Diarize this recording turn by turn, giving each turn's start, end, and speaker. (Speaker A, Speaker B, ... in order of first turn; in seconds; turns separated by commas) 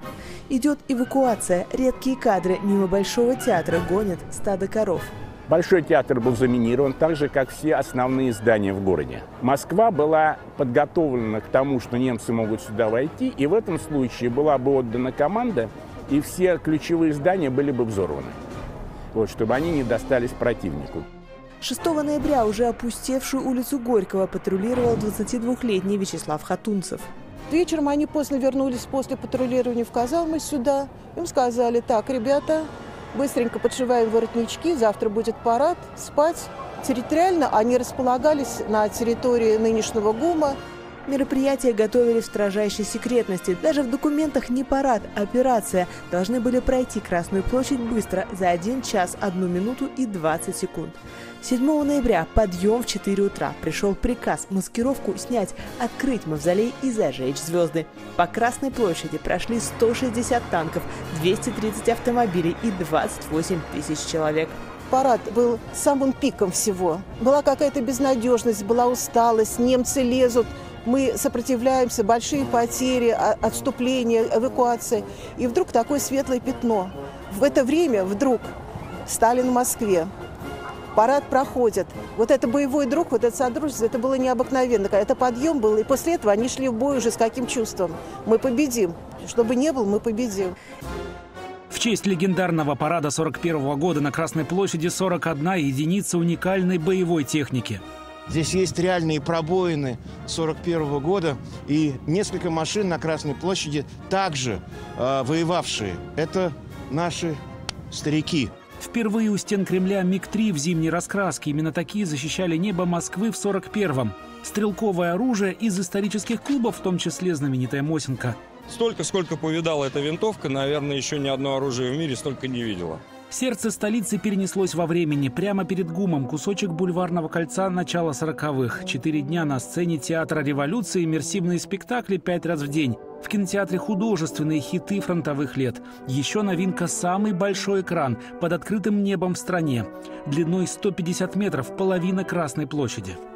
Speaker A: 0.5-5.1, Speaker B: 5.5-18.4, Speaker B: 19.1-21.1, Speaker A: 21.6-27.1, Speaker C: 27.5-40.6, Speaker A: 41.1-64.5, Speaker C: 64.9-78.5, Speaker C: 79.0-80.1, Speaker C: 80.9-90.5, Speaker D: 91.7-97.8, Speaker E: 98.3-107.4, Speaker E: 107.9-108.5, Speaker D: 108.8-118.3, Speaker F: 118.7-123.0, Speaker D: 123.3-143.2